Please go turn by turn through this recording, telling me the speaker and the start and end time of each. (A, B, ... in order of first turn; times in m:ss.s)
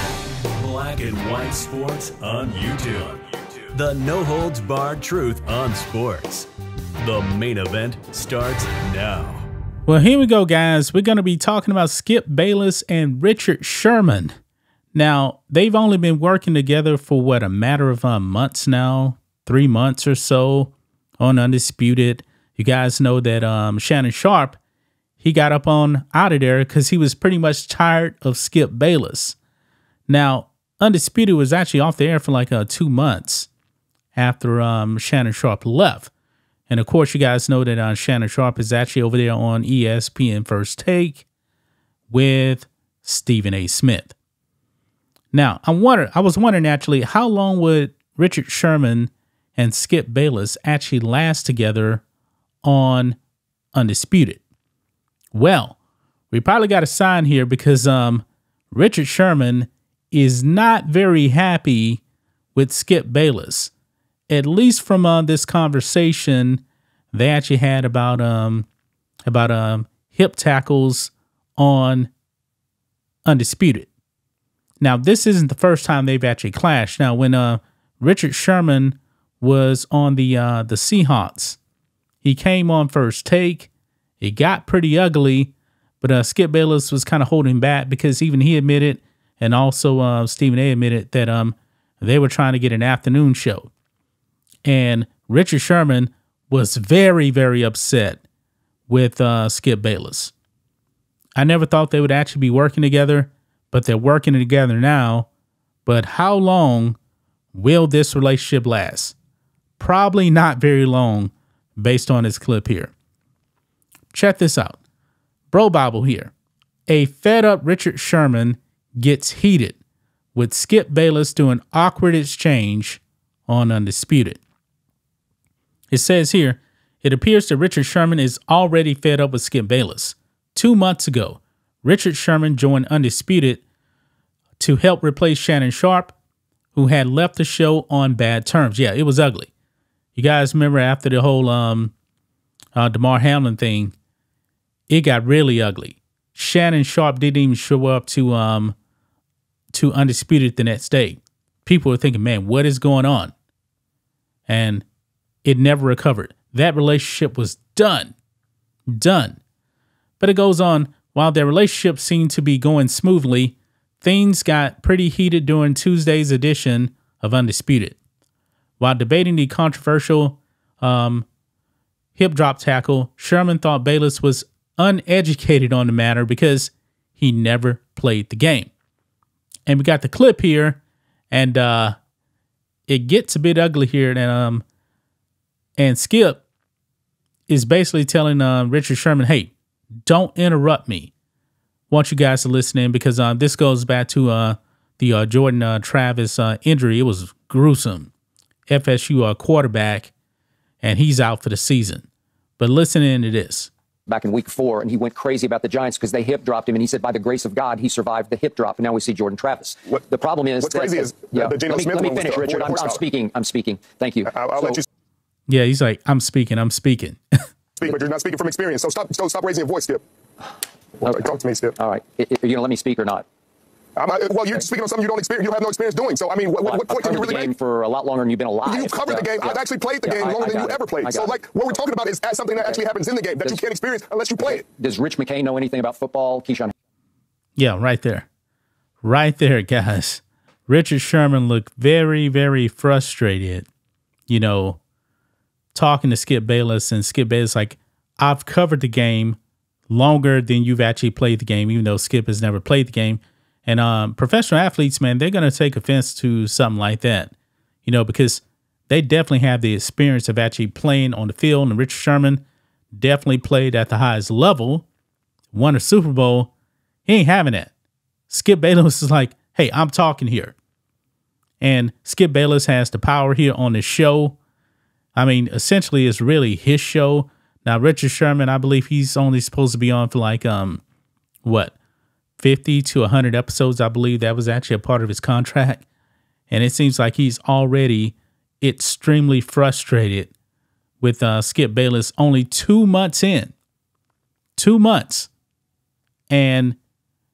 0:00.5-0:06.5 A
0:07.0-0:09.5 A
0:09.8-0:14.3 B
0:14.9-0:24.6 B
0:25.2-0:29.4 B
0:30.1-0:33.5 B
0:34.1-0:36.1 B
0:36.7-0:41.2 B
0:42.1-0:44.1 B
0:45.3-0:52.0 B
0:52.6-0:53.2 B
0:53.7-0:54.4 B
0:55.3-0:55.8 B
0:56.3-1:02.0 B
1:02.5-1:03.7 B
1:04.3-1:08.7 B
1:09.3-1:12.1 B
1:13.2-1:13.9 B
1:14.8-1:21.6 B
1:22.2-1:33.7 B
1:34.6-1:38.2 B
1:38.9-1:40.3 B
1:41.4-1:45.3 B
1:45.8-1:47.0 B
1:47.5-1:49.2 B
1:49.8-1:52.9 B
1:54.1-1:54.8 B
1:55.5-1:56.3 B
1:56.9-1:59.8 B
2:00.3-2:04.4 B
2:05.9-2:13.6 B
2:14.6-2:16.1 B
2:16.7-2:19.5 B
2:20.1-2:21.9 B
2:22.7-2:23.9 B
2:24.9-2:28.8 B
2:29.7-2:33.3 B
2:34.5-2:34.8 B
2:35.4-2:38.1 B
2:38.9-2:39.4 B
2:40.2-2:48.0 B
2:48.8-2:51.2 B
2:52.1-2:58.7 B
2:59.7-3:00.8 B
3:01.3-3:02.0 B
3:02.9-3:04.6 B
3:05.8-3:06.4 B
3:07.5-3:09.5 B
3:10.0-3:11.1 B
3:11.9-3:18.1 B
3:18.7-3:20.1 B
3:20.8-3:22.1 B
3:22.6-3:23.7 B
3:24.1-3:34.8 C
3:30.6-3:33.0 D
3:34.3-3:34.8 D
3:35.5-3:37.2 B
3:37.8-3:40.0 D
3:41.0-3:43.2 C
3:41.0-3:41.8 D
3:44.0-3:47.5 D
3:46.6-3:51.7 C
3:48.7-3:54.6 D
3:52.6-3:52.9 C
3:54.4-3:56.7 C
3:57.6-3:58.3 B
3:59.0-4:03.7 B
4:04.3-4:04.8 B
4:05.7-4:09.4 B
4:09.9-4:17.3 B
4:17.8-4:24.8 B
4:25.5-4:26.5 B
4:27.0-4:27.7 B
4:28.3-4:30.5 B
4:31.6-4:34.4 B
4:35.2-4:40.8 B
4:41.4-4:41.7 B
4:42.4-4:45.8 B
4:46.5-4:50.3 B
4:51.0-4:53.5 B
4:54.6-4:55.3 B
4:56.3-4:56.8 B